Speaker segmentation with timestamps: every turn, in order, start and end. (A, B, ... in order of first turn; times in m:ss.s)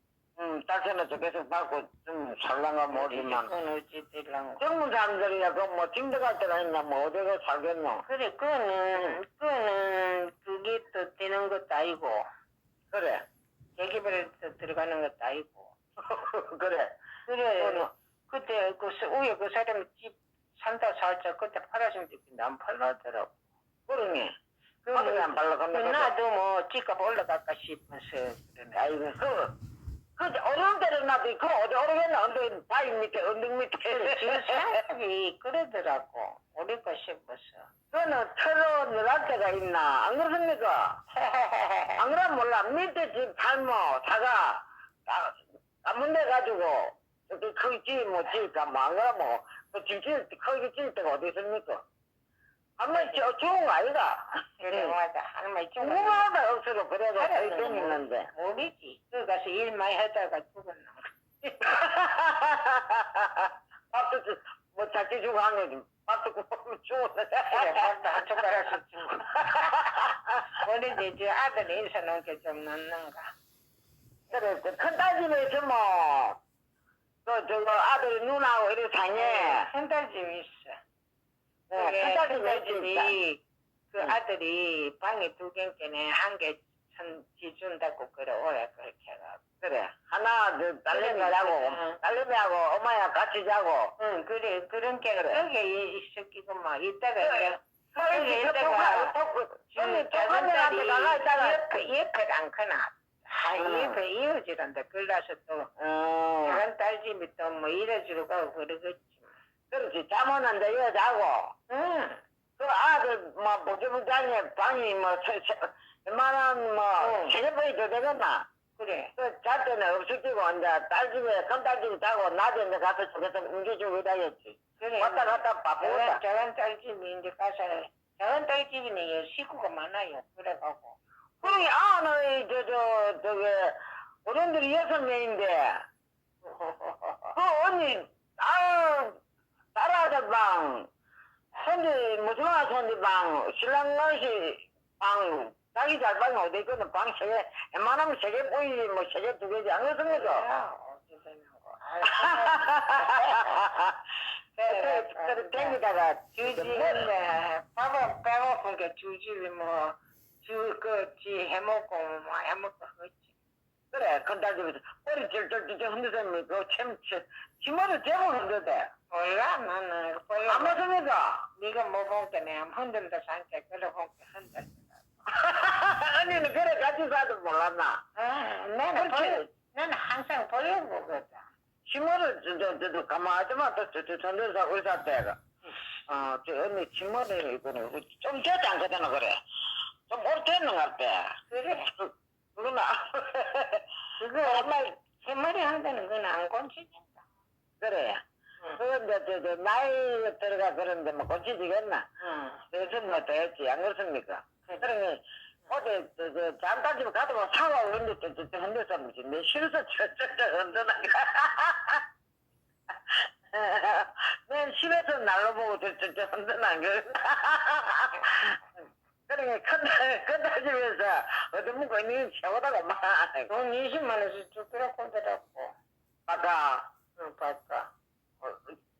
0:00.4-0:03.5 A
0:02.9-0:04.6 B
0:04.6-0:08.0 A
0:08.1-0:12.2 B
0:12.9-0:13.2 A
0:13.8-0:15.7 B
0:16.0-0:16.9 A
0:17.3-0:23.3 B
0:17.6-0:17.9 A
0:23.9-0:24.3 A
0:24.8-0:28.8 B
0:24.9-0:26.1 A
0:28.8-0:29.4 A
0:30.2-0:34.6 A
0:33.8-0:37.7 B
0:37.9-0:40.8 A
0:41.1-0:42.0 B
0:42.0-0:51.8 A
0:52.8-0:54.9 A
0:52.9-0:53.2 B
0:54.6-0:56.3 B
0:55.8-0:58.3 A
0:57.2-1:01.0 B
1:01.4-1:08.1 A
1:07.5-1:13.2 B
1:09.4-1:10.4 A
1:14.3-1:16.4 A
1:17.2-1:19.7 A
1:19.1-1:20.8 B
1:21.7-1:23.1 A
1:21.7-1:23.4 B
1:23.9-1:29.4 B
1:29.6-1:33.9 A
1:30.9-1:32.0 B
1:34.0-1:39.1 B
1:37.2-1:41.6 A
1:39.7-1:45.7 B
1:43.6-1:44.0 A
1:45.8-1:46.6 A
1:46.4-1:49.3 B
1:49.7-1:51.5 A
1:51.7-1:52.2 B
1:52.6-1:58.4 A
1:57.0-1:57.4 B
1:58.8-1:59.1 B
1:59.2-2:06.2 A
2:04.8-2:11.6 B
2:11.4-2:15.8 A
2:16.4-2:17.3 B
2:17.3-2:19.2 A
2:19.7-2:20.9 A
2:21.5-2:30.4 A
2:30.1-2:33.6 B
2:32.1-2:34.0 A
2:34.6-2:35.8 B
2:34.7-2:37.1 A
2:36.3-2:43.3 B
2:43.9-2:48.9 A
2:49.1-2:50.8 B
2:50.5-2:51.4 A
2:51.6-2:55.0 B
2:55.3-2:58.0 A
2:58.2-3:01.4 B
2:59.0-2:59.4 A
3:01.9-3:05.4 A
3:06.1-3:09.3 A
3:10.1-3:11.3 A
3:11.5-3:11.9 B
3:12.0-3:13.8 A
3:14.2-3:17.2 B
3:14.4-3:14.9 A
3:17.8-3:18.2 A
3:18.8-3:22.0 A
3:22.2-3:22.6 B
3:22.7-3:32.0 A
3:33.1-3:38.6 A
3:39.3-3:43.5 A
3:43.5-3:45.7 B
3:46.3-3:46.8 A
3:47.2-3:47.8 B